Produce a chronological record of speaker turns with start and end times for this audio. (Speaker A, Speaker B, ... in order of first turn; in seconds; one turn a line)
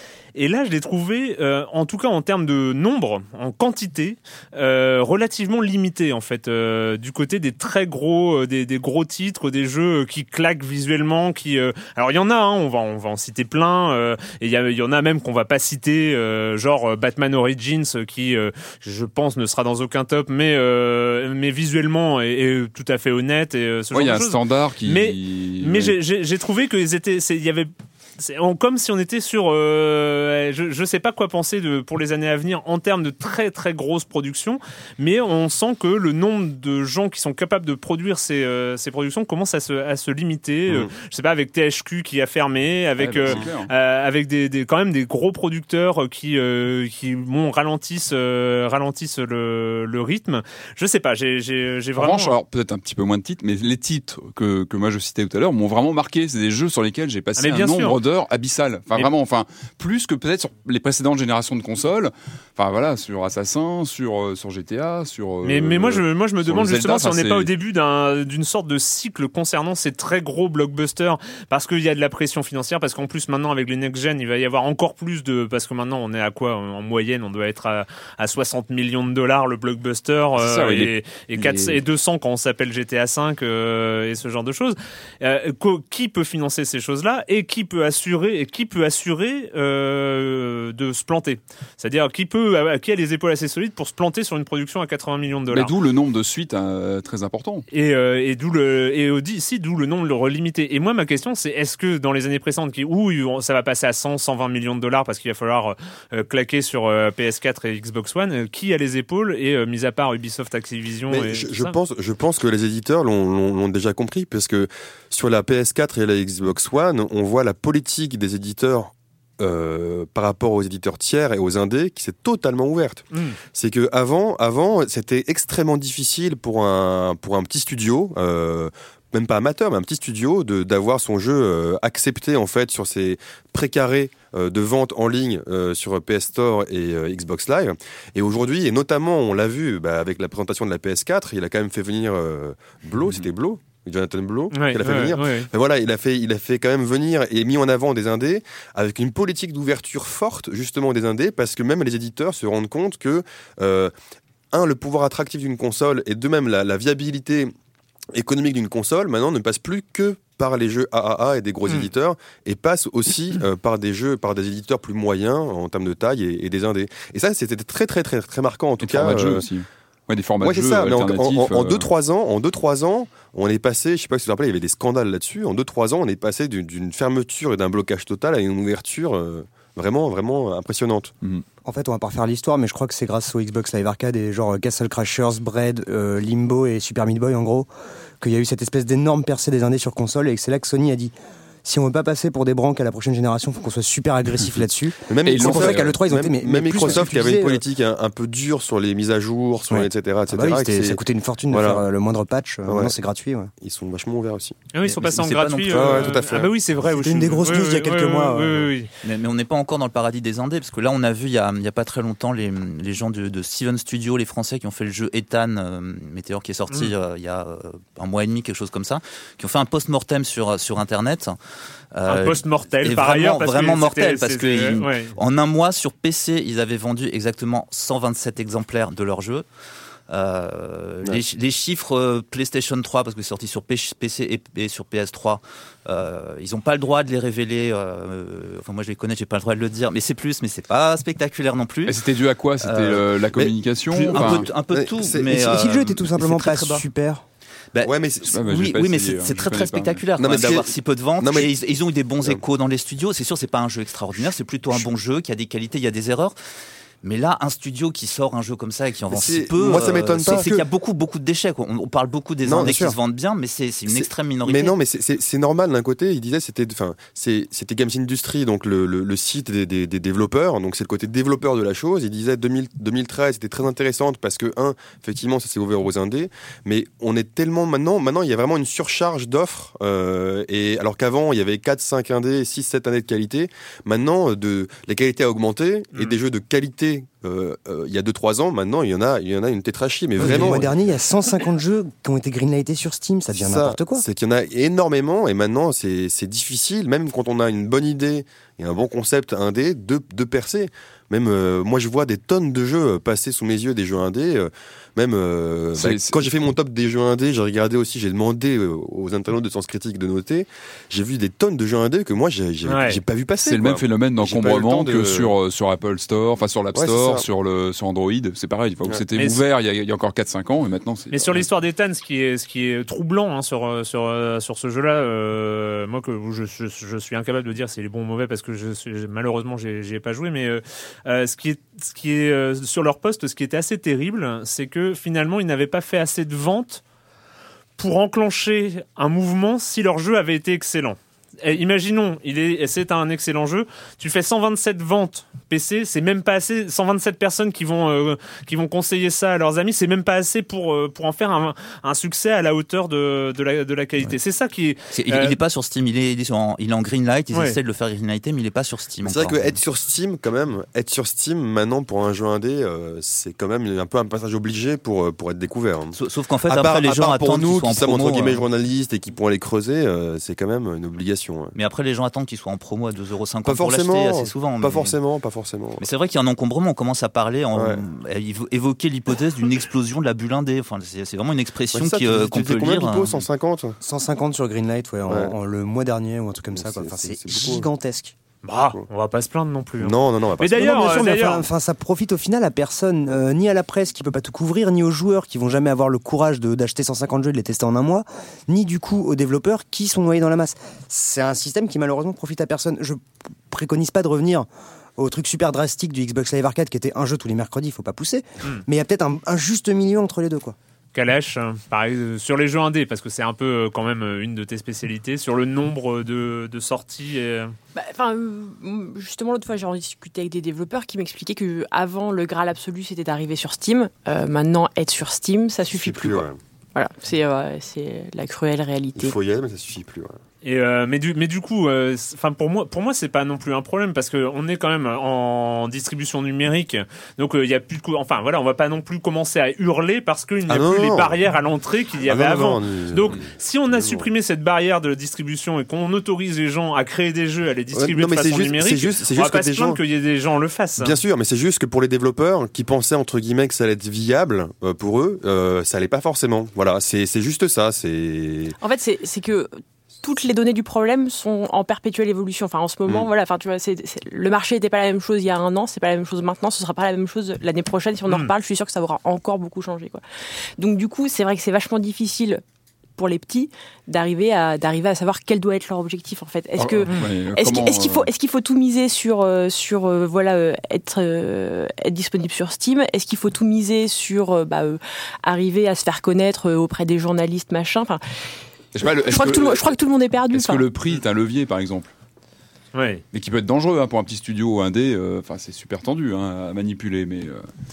Speaker A: 0.3-52.4
Speaker B: 23.9-26.0
Speaker B: 43.0-43.7
Speaker B: 52.0-67.5
Speaker A: 57.4-58.0
Speaker A: 65.4-95.7
Speaker B: 80.4-81.8
Speaker B: 95.5-97.7
Speaker A: 97.7-111.8
Speaker C: 111.1-153.9
Speaker A: 123.1-123.4
Speaker A: 144.5-145.5
Speaker C: 154.5-157.5
Speaker C: 158.1-169.5
Speaker B: 168.8-171.9
Speaker C: 170.4-181.1
Speaker D: 181.7-187.7
Speaker D: 188.2-197.6
Speaker C: 195.1-201.8
Speaker B: 195.2-195.9
Speaker B: 196.8-197.1
Speaker D: 199.7-203.5
Speaker C: 202.7-202.9
Speaker C: 203.6-204.6
Speaker A: 204.7-208.9
Speaker E: 204.8-206.3
Speaker C: 205.7-206.5
Speaker D: 206.8-208.7
Speaker E: 209.0-221.4
Speaker E: 221.9-229.5
Speaker A: 222.1-225.2
Speaker E: 230.1-242.1
Speaker B: 241.8-244.5
Speaker E: 242.6-243.1
Speaker C: 243.4-245.8
Speaker E: 244.1-246.8
Speaker D: 245.2-247.2
Speaker E: 247.7-256.4
Speaker C: 247.8-248.3
Speaker B: 248.3-250.0
Speaker C: 250.2-251.5
Speaker E: 257.0-264.8
Speaker C: 259.1-260.6
Speaker C: 262.5-262.8
Speaker D: 262.6-262.9
Speaker C: 263.9-290.8
Speaker D: 290.2-294.0
Speaker C: 293.3-315.4
Speaker B: 305.8-306.2
Speaker A: 312.7-313.0
Speaker B: 313.4-321.4
Speaker C: 316.7-317.3
Speaker A: 319.2-319.4
Speaker A: 321.1-336.8
Speaker A: 337.8-355.4
Speaker E: 354.9-359.6
Speaker C: 359.0-371.6
Speaker E: 365.9-368.4
Speaker E: 371.5-375.0
Speaker C: 373.5-375.9
Speaker E: 375.8-383.3
Speaker C: 377.6-377.8
Speaker C: 381.8-383.8
Speaker D: 383.8-388.1
Speaker C: 385.1-385.3
Speaker C: 386.5-387.7
Speaker A: 388.4-391.4
Speaker C: 389.8-391.0
Speaker D: 390.5-410.6
Speaker A: 410.9-417.6
Speaker F: 417.7-429.2
Speaker C: 425.7-426.4
Speaker C: 429.0-430.2
Speaker A: 430.4-451.0
Speaker C: 440.5-441.2
Speaker C: 442.0-444.1
Speaker C: 447.7-449.8
Speaker C: 450.8-458.6
Speaker F: 458.6-470.0
Speaker A: 468.1-468.3
Speaker F: 470.6-472.4
Speaker F: 473.0-488.0
Speaker B: 476.6-478.1
Speaker B: 488.7-489.8
Speaker F: 488.8-490.7
Speaker B: 490.3-491.9
Speaker A: 492.7-493.0
Speaker B: 493.1-497.5